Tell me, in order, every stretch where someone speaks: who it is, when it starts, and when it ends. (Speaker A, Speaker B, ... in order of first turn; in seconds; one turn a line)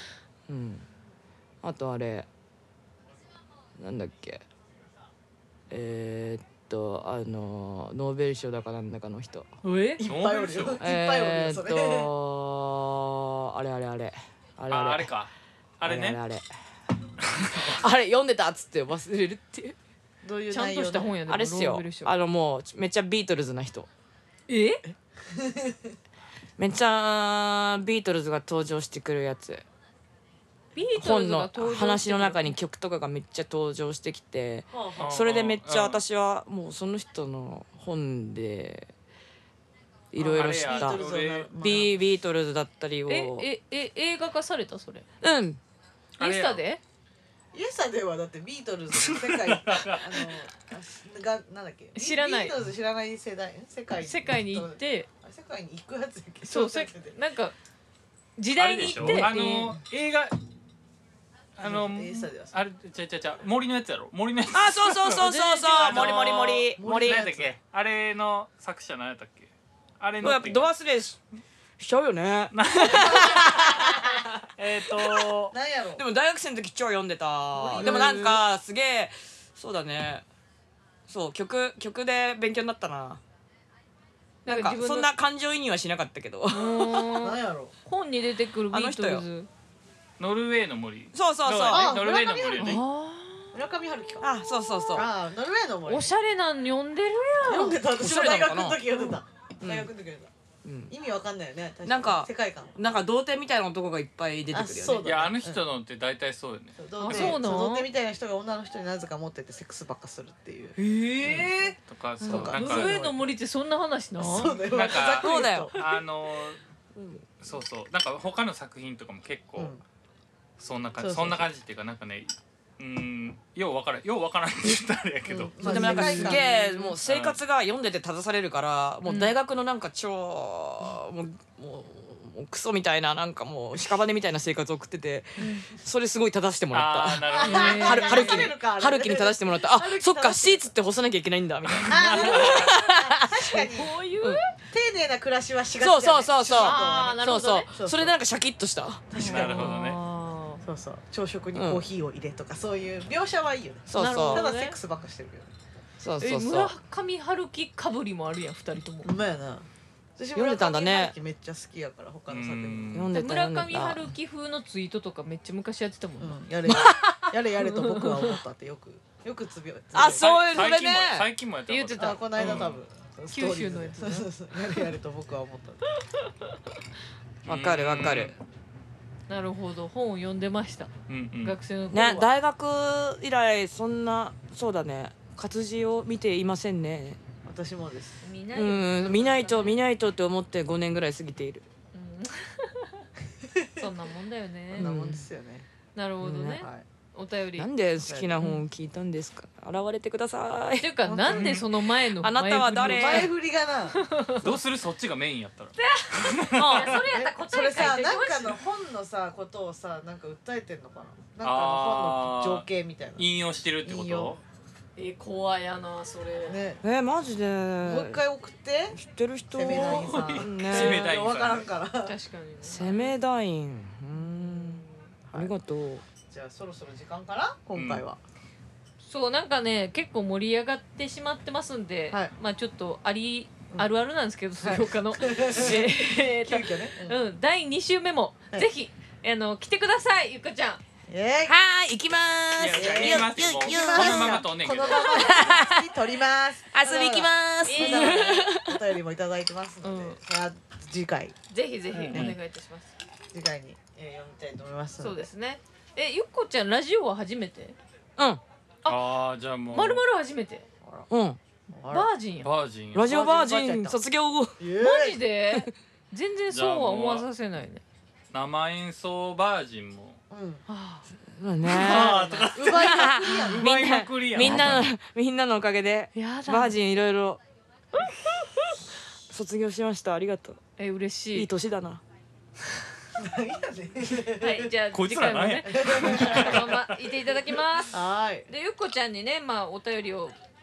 Speaker A: 0.5-0.8
Speaker A: 1.6-2.3
Speaker A: 3.8-4.4
Speaker A: 5.7-9.5
Speaker B: 9.6-10.0
Speaker C: 10.0-12.1
Speaker D: 10.0-10.8
Speaker A: 10.8-15.1
Speaker D: 14.7-16.2
Speaker A: 15.8-16.5
Speaker D: 17.4-17.8
Speaker A: 17.7-19.8
Speaker C: 20.2-21.1
Speaker B: 20.5-22.1
Speaker A: 21.2-23.9
Speaker B: 24.5-24.8
Speaker C: 25.4-25.7
Speaker A: 26.6-29.6
Speaker B: 30.7-32.5
Speaker A: 30.9-38.9
Speaker C: 34.7-35.2
Speaker D: 35.0-36.0
Speaker A: 40.1-43.5
Speaker D: 40.2-41.9
Speaker C: 40.2-42.0
Speaker B: 43.1-45.0
Speaker A: 45.2-45.6
Speaker D: 46.2-46.6
Speaker B: 46.2-46.8
Speaker C: 47.5-57.1
Speaker D: 48.9-50.3
Speaker B: 52.0-52.5
Speaker B: 54.0-55.1
Speaker B: 56.5-57.5
Speaker B: 58.4-59.3
Speaker D: 58.5-60.4
Speaker A: 58.9-59.8
Speaker D: 61.6-70.7
Speaker C: 61.6-62.6
Speaker A: 64.5-67.2
Speaker B: 65.2-66.5
Speaker C: 66.8-67.5
Speaker A: 70.2-71.2
Speaker A: 71.8-74.2
Speaker D: 72.5-74.0
Speaker C: 73.0-74.2
Speaker D: 74.6-75.5
Speaker A: 74.9-75.3
Speaker C: 75.5-76.0
Speaker A: 76.0-80.2
Speaker C: 77.5-78.4
Speaker B: 77.8-78.3
Speaker A: 81.1-83.2
Speaker A: 84.4-87.1
Speaker B: 84.5-85.1
Speaker B: 86.5-89.5
Speaker C: 87.2-87.7
Speaker A: 88.7-89.2
Speaker D: 90.2-92.8
Speaker A: 91.1-92.0
Speaker C: 91.7-92.8
Speaker B: 92.6-93.5
Speaker C: 93.5-94.3
Speaker A: 94.2-95.1
Speaker C: 94.9-96.1
Speaker B: 95.9-97.8
Speaker C: 97.4-100.3
Speaker A: 98.0-98.8
Speaker A: 99.6-99.9
Speaker A: 100.6-100.9
Speaker C: 100.9-102.8
Speaker A: 101.8-105.1
Speaker C: 104.5-105.6
Speaker D: 105.0-107.3
Speaker C: 106.8-113.3
Speaker B: 107.0-107.9
Speaker A: 107.1-107.3
Speaker B: 110.8-111.7
Speaker D: 111.9-113.0
Speaker B: 112.2-114.7
Speaker C: 114.2-115.7
Speaker D: 114.7-116.6
Speaker A: 115.2-115.7
Speaker D: 117.4-119.7
Speaker C: 119.6-119.8
Speaker D: 120.6-126.1
Speaker C: 121.0-121.5
Speaker C: 125.3-126.9
Speaker A: 125.6-143.6
Speaker B: 125.7-126.4
Speaker D: 127.0-127.4
Speaker B: 129.1-129.3
Speaker B: 135.4-135.7
Speaker D: 136.7-138.3
Speaker C: 137.3-140.7
Speaker B: 137.4-138.5
Speaker D: 141.7-142.1
Speaker C: 141.9-143.9
Speaker B: 143.5-144.5
Speaker C: 144.7-148.1
Speaker A: 145.8-149.7
Speaker B: 146.5-147.7
Speaker C: 149.1-149.8
Speaker B: 149.1-150.6
Speaker D: 149.2-150.0
Speaker C: 150.6-155.5
Speaker A: 151.5-151.8
Speaker A: 153.9-154.5
Speaker B: 153.9-154.8
Speaker A: 156.0-156.7
Speaker B: 156.2-159.1
Speaker C: 159.0-163.0
Speaker A: 160.3-161.1
Speaker D: 162.3-163.1
Speaker A: 162.9-164.1
Speaker B: 163.1-166.4
Speaker C: 166.2-170.8
Speaker A: 166.7-167.2
Speaker B: 167.6-168.3
Speaker A: 169.9-171.3
Speaker D: 170.1-172.8
Speaker B: 171.7-172.6
Speaker C: 172.0-175.9
Speaker B: 173.3-174.8
Speaker A: 177.4-178.3
Speaker D: 177.5-178.4
Speaker B: 179.3-180.9
Speaker D: 181.1-181.6
Speaker B: 181.4-182.2
Speaker A: 181.9-187.2
Speaker C: 187.4-188.2
Speaker B: 188.2-189.8
Speaker A: 188.5-191.7
Speaker B: 191.9-193.0
Speaker B: 193.8-194.9
Speaker A: 194.7-195.2
Speaker C: 194.7-195.7
Speaker B: 195.9-197.7
Speaker A: 196.2-196.6
Speaker A: 197.6-203.3
Speaker C: 198.0-198.4
Speaker B: 200.8-203.3
Speaker C: 201.0-201.6
Speaker C: 202.8-204.0
Speaker B: 203.9-204.6
Speaker D: 204.4-206.9
Speaker B: 205.8-208.6
Speaker A: 206.5-207.0
Speaker C: 206.9-213.3
Speaker D: 211.4-212.7
Speaker D: 213.2-214.4
Speaker C: 213.8-214.4
Speaker B: 214.9-216.6
Speaker C: 216.4-216.8
Speaker A: 216.8-218.2
Speaker C: 217.8-219.0
Speaker A: 218.9-221.1
Speaker C: 219.5-222.1
Speaker B: 219.7-220.5
Speaker D: 220.3-221.7
Speaker B: 222.1-223.1
Speaker A: 222.6-226.0
Speaker C: 226.2-228.2
Speaker D: 227.8-228.0
Speaker B: 229.0-240.8
Speaker C: 234.6-237.2
Speaker C: 241.1-241.5
Speaker A: 241.4-245.9
Speaker D: 242.6-245.5
Speaker C: 242.7-251.3
Speaker A: 246.7-248.8
Speaker B: 247.6-248.4
Speaker B: 249.8-250.2
Speaker B: 251.5-252.9
Speaker D: 251.9-252.3
Speaker C: 253.3-255.3
Speaker B: 255.0-257.8
Speaker B: 258.8-259.1
Speaker D: 258.8-260.0
Speaker B: 259.7-260.6
Speaker A: 261.1-261.4
Speaker C: 261.7-262.1
Speaker B: 261.9-262.5
Speaker D: 262.4-263.1
Speaker A: 262.9-264.6
Speaker C: 263.0-264.0
Speaker C: 264.6-265.2
Speaker B: 264.8-267.8
Speaker D: 266.5-267.2
Speaker D: 268.3-270.2
Speaker C: 270.3-270.6
Speaker B: 270.7-271.0
Speaker A: 271.3-277.4
Speaker D: 271.6-274.9
Speaker C: 271.7-273.7
Speaker B: 274.4-274.8
Speaker B: 276.1-276.8
Speaker B: 278.0-278.7
Speaker A: 279.3-280.6
Speaker B: 280.8-281.5
Speaker A: 281.3-282.0
Speaker C: 283.1-284.7
Speaker B: 284.4-288.0
Speaker D: 284.9-286.9
Speaker C: 285.6-286.5
Speaker C: 287.9-288.5
Speaker B: 288.5-290.3